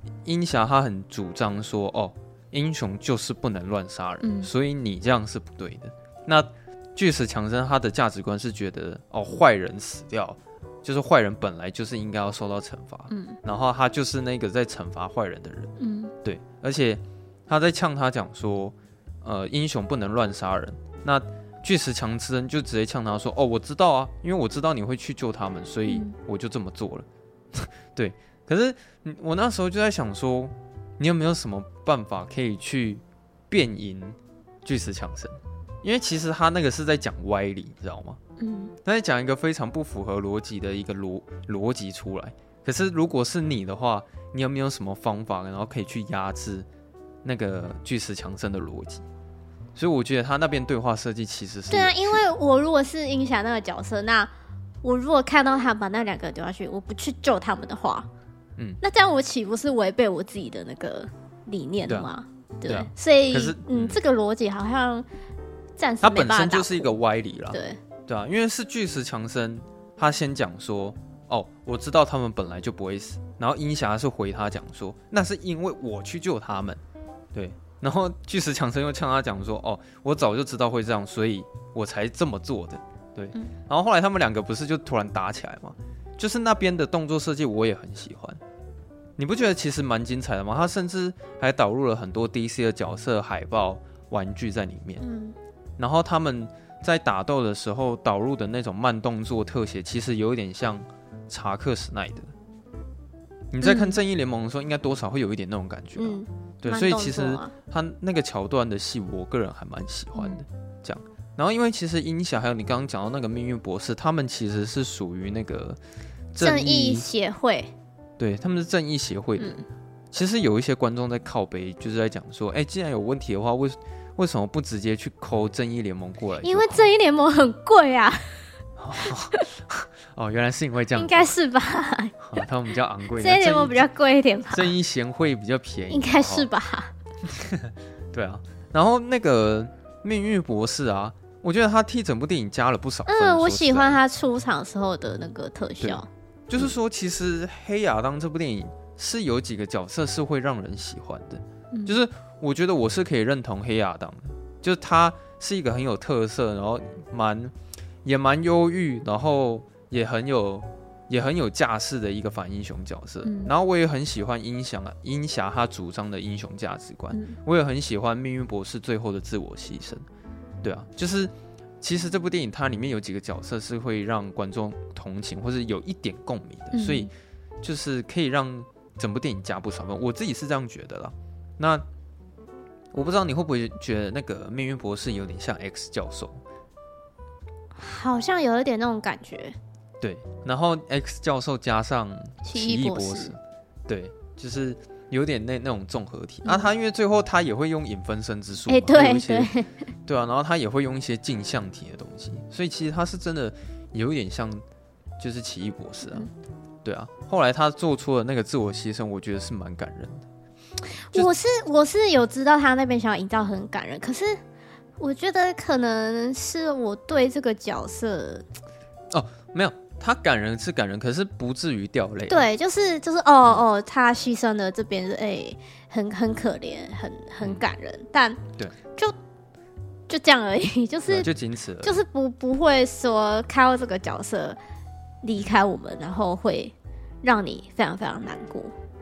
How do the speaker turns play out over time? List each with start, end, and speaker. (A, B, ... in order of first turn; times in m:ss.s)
0:00.2-0:38.2 A
0:04.2-0:04.5 B
0:13.1-0:13.4 B
0:15.8-0:16.1 B
0:25.9-0:26.1 B
0:38.4-0:38.7 B
0:38.8-0:46.7 A
0:47.2-0:49.0 A
0:49.7-0:52.2 A
0:51.7-0:54.3 B
0:54.8-0:58.1 B
0:58.8-1:05.0 B
1:02.6-1:04.0 A
1:05.8-1:06.9 B
1:06.0-1:16.8 A
1:07.5-1:07.8 B
1:17.3-1:28.4 A
1:29.2-1:35.0 A
1:35.0-1:35.3 B
1:35.8-1:42.3 A
1:43.5-1:55.8 A
1:43.6-1:44.0 B
1:46.0-1:47.5 B
1:56.3-1:57.0 A
1:56.4-1:57.7 B
1:58.2-2:06.8 A
1:59.4-1:59.6 B
2:06.4-2:08.2 B
2:08.8-2:11.3 A
2:09.0-2:09.4 B
2:10.9-2:12.4 B
2:12.2-2:13.8 A
2:13.2-2:14.7 B
2:14.5-2:16.5 A
2:15.9-2:16.9 B
2:17.2-2:24.0 A
2:23.0-2:26.1 B
2:25.8-2:37.5 A
2:31.7-2:32.0 B
2:38.0-2:50.0 A
2:43.2-2:43.5 B
2:47.1-2:47.4 B
2:50.6-2:57.1 A
2:56.7-2:57.1 B
2:57.6-3:01.8 A
3:02.9-3:06.4 A
3:07.8-3:09.6 B
3:10.0-3:19.5 A
3:12.4-3:13.3 B
3:16.4-3:16.7 B
3:18.7-3:19.7 B
3:20.0-3:24.6 A
3:25.2-3:26.3 A
3:26.8-3:30.2 A
3:31.1-3:34.4 B
3:35.0-3:38.4 B
3:39.1-3:42.5 A
3:42.3-3:48.4 B
3:50.1-3:51.3 B
3:51.1-3:52.0 A
3:51.8-3:54.6 B
3:55.2-3:58.7 B